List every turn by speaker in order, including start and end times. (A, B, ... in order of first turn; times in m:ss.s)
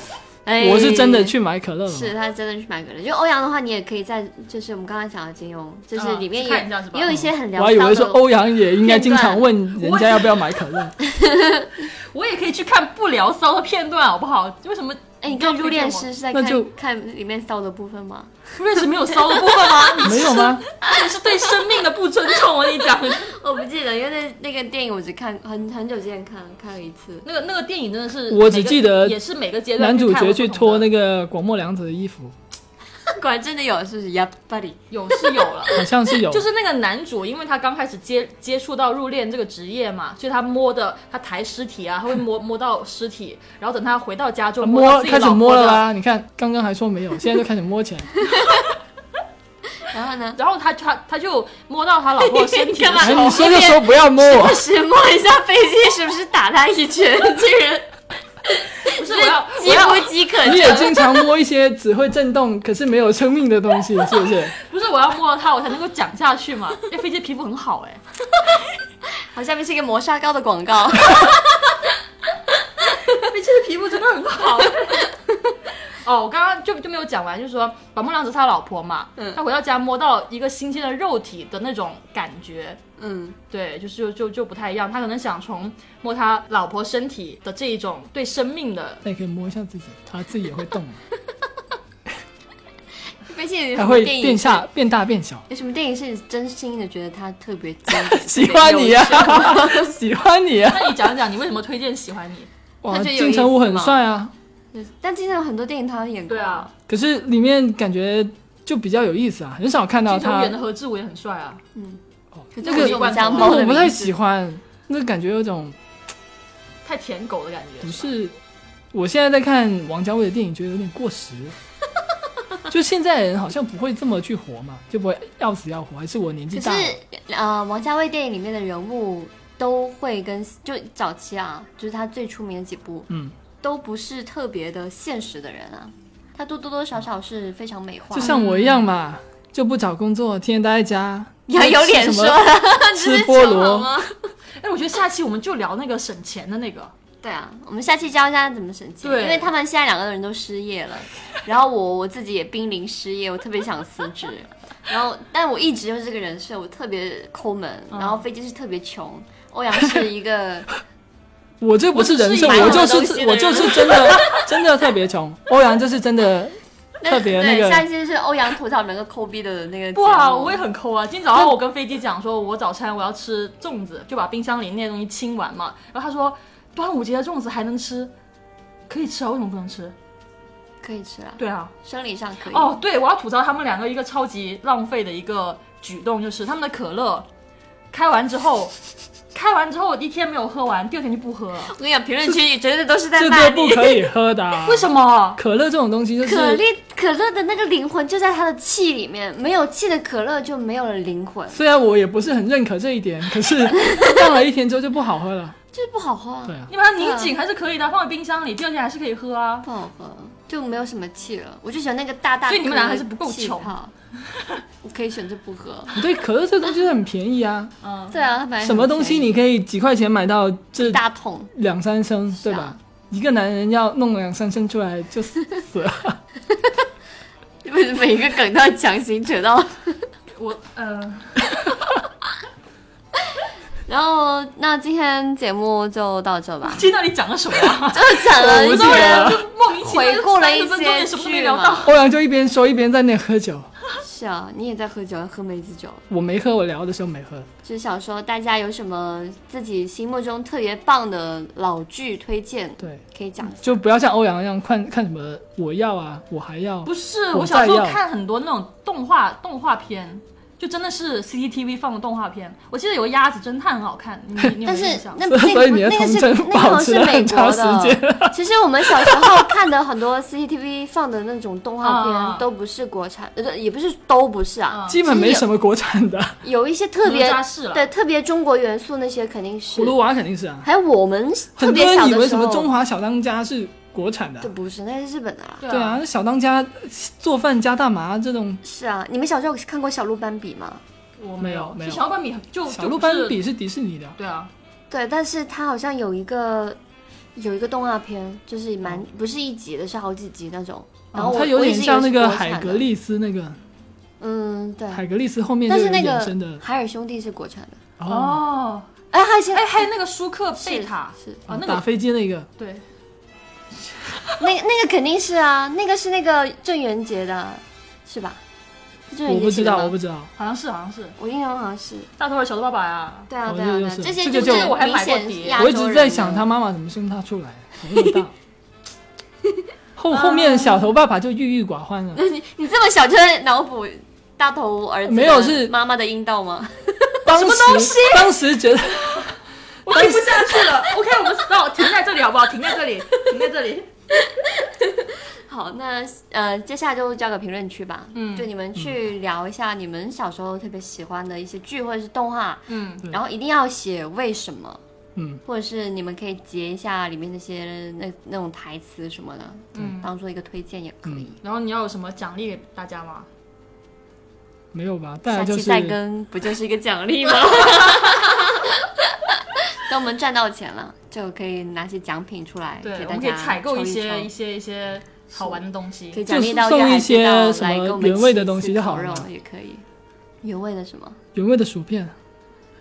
0:00.4-0:01.3 A
0:00.6-0:02.1 B
0:01.9-0:09.9 A
0:06.0-0:07.2 C
0:07.1-0:11.0 B
0:09.8-0:10.4 C
0:11.0-0:11.8 A
0:12.0-0:16.1 C
0:15.2-0:18.4 A
0:16.3-0:16.7 B
0:18.6-0:23.3 C
0:19.2-0:21.0 A
0:20.0-0:20.6 B
0:23.2-0:27.2 A
0:27.2-0:30.9 C
0:28.3-0:29.2 B
0:29.8-0:32.3 B
0:33.1-0:35.9 A
0:34.9-0:45.8 C
0:35.7-0:36.4 B
0:44.6-0:48.1 B
0:48.3-0:48.6 A
0:49.9-0:50.4 A
0:50.4-0:53.6 C
0:52.3-0:57.9 A
0:53.0-0:54.6 B
0:58.8-1:01.1 A
0:58.9-1:00.1 C
1:00.4-1:04.5 B
1:04.6-1:08.0 C
1:09.2-1:11.8 A
1:12.8-1:13.2 A
1:13.1-1:15.1 C
1:14.6-1:15.5 A
1:15.9-1:22.8 C
1:23.0-1:23.4 A
1:23.5-1:29.0 C
1:29.0-1:31.0 B
1:33.2-1:34.6 A
1:33.8-1:35.4 B
1:35.5-1:39.9 A
1:37.9-1:41.1 B
1:40.7-1:42.5 C
1:42.8-1:44.3 B
1:42.9-1:44.0 A
1:44.7-1:46.7 A
1:46.3-1:46.7 C
1:46.9-1:50.6 B
1:50.1-1:51.6 C
1:51.7-1:52.0 A
1:52.5-1:54.1 A
1:52.6-1:55.8 B
1:52.6-1:53.7 C
1:56.8-1:58.1 C
1:57.8-1:58.4 B
1:58.9-2:01.6 B
2:02.7-2:07.0 B
2:06.5-2:13.1 A
2:13.6-2:18.3 A
2:18.1-2:23.9 B
2:18.2-2:18.9 C
2:21.5-2:24.3 A
2:24.6-2:26.9 C
2:27.2-2:40.7 A
2:29.0-2:29.5 C
2:37.9-2:38.2 C
2:41.6-2:47.8 B
2:41.9-2:44.1 C
2:42.4-2:44.5 A
2:47.0-2:50.6 A
2:49.9-2:58.1 C
2:58.9-2:59.9 C
3:00.8-3:02.8 A
3:01.4-3:01.7 C
3:02.5-3:07.3 C
3:07.9-3:08.7 C
3:09.3-3:11.7 C
3:11.6-3:14.0 A
3:13.2-3:16.6 B
3:14.6-3:15.4 C
3:16.2-3:21.6 A
3:21.5-3:25.6 B
3:23.8-3:24.2 A
3:25.7-3:27.3 A
3:26.7-3:29.6 C
3:29.6-3:33.9 A
3:32.5-3:33.7 C
3:34.8-3:36.0 A
3:36.0-3:37.7 B
3:37.8-3:38.2 C
3:38.1-3:39.3 A
3:38.6-3:41.0 B
3:40.8-3:41.5 A
3:41.5-3:46.2 B
3:42.4-3:42.8 A
3:47.6-3:50.0 A
3:50.3-3:51.4 C
3:53.9-3:56.8 A
3:56.6-4:02.0 C
3:57.8-4:01.9 A
3:58.4-3:59.4 B
4:01.8-4:03.7 B
4:04.0-4:06.0 A
4:06.1-4:07.5 B
4:07.6-4:13.8 A
4:13.6-4:18.0 B
4:16.8-4:25.2 C
4:24.6-4:35.4 A
4:25.3-4:29.4 B
4:31.8-4:32.4 C
4:34.7-4:35.0 C
4:34.9-4:36.4 B
4:36.4-4:40.0 A
4:37.0-4:37.9 C
4:39.7-4:40.7 B
4:40.6-4:42.7 A
4:41.6-4:44.5 B
4:44.4-4:45.6 A
4:45.6-4:46.0 C
4:45.7-4:48.6 B
4:48.6-4:50.8 A
4:51.2-4:53.4 C
4:51.4-4:52.0 B
4:52.7-4:54.2 B
4:54.2-4:54.5 C
4:54.9-4:56.8 A
4:57.4-5:02.8 A
5:01.1-5:01.4 C
5:01.2-5:03.6 B
5:04.2-5:05.0 A
5:04.9-5:06.6 B
5:05.7-5:07.8 A
5:08.0-5:08.4 B
5:08.0-5:08.9 C
5:09.1-5:09.9 A
5:09.5-5:11.8 C
5:10.6-5:11.4 A
5:11.5-5:12.5 B
5:12.6-5:12.8 C
5:14.0-5:14.3 C
5:14.4-5:18.4 A
5:19.1-5:20.0 A
5:19.2-5:20.3 B
5:20.4-5:21.1 C
5:21.2-5:22.1 A
5:22.2-5:23.3 C
5:23.3-5:26.5 A
5:23.4-5:24.8 B
5:24.2-5:25.6 C
5:25.6-5:28.3 B
5:30.0-5:32.2 B
5:30.1-5:30.9 C
5:32.1-5:37.2 A
5:35.0-5:35.7 B
5:37.2-5:39.3 B
5:37.3-5:39.3 C
5:39.8-5:43.9 C
5:39.9-5:40.4 B
5:44.1-5:54.8 A
5:48.1-5:48.5 C
5:52.7-5:53.0 C
5:55.2-5:55.4 B
5:55.4-6:01.4 A
5:59.8-6:00.1 C
6:01.4-6:03.3 C
6:04.7-6:06.0 B
6:05.3-6:14.3 A
6:12.8-6:16.2 C
6:15.3-6:19.8 A
6:16.3-6:19.2 B
6:20.4-6:21.2 A
6:21.3-6:22.1 B